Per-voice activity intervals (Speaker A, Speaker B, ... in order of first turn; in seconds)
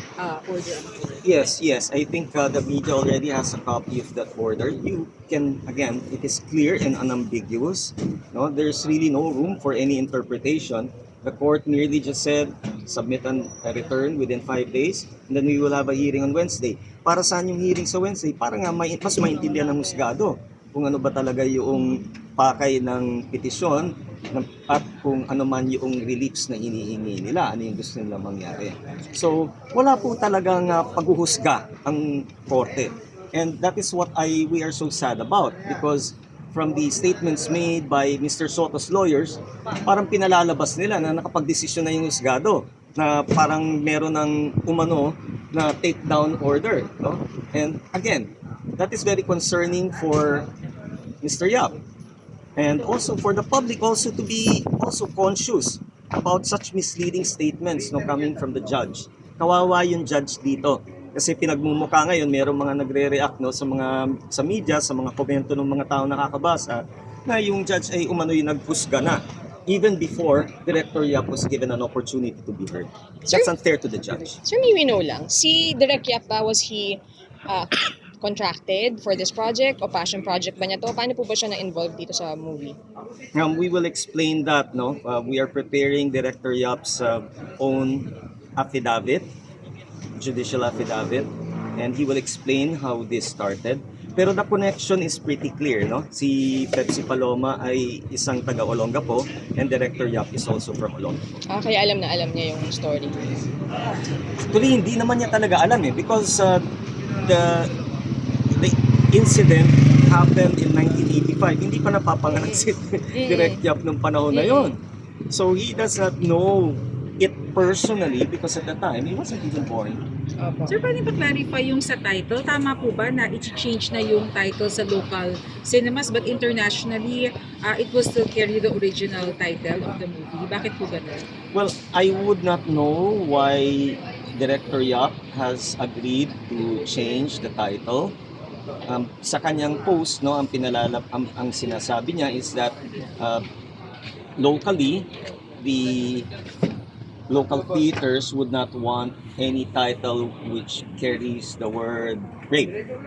Speaker A: 0.2-1.3, 120.7-131.2
Speaker B: 1.2-50.5, 51.2-51.7, 52.5-74.4, 83.3-89.3, 90.2-101.4, 104.5-106.6, 107.2-107.8, 108.5-120.0, 131.5-138.1, 138.9-143.4, 144.4-145.1, 145.6-146.3, 147.3-152.7
Speaker C: 74.5-82.8, 101.5-103.1, 113.1-113.6, 114.3-114.7, 120.4-120.8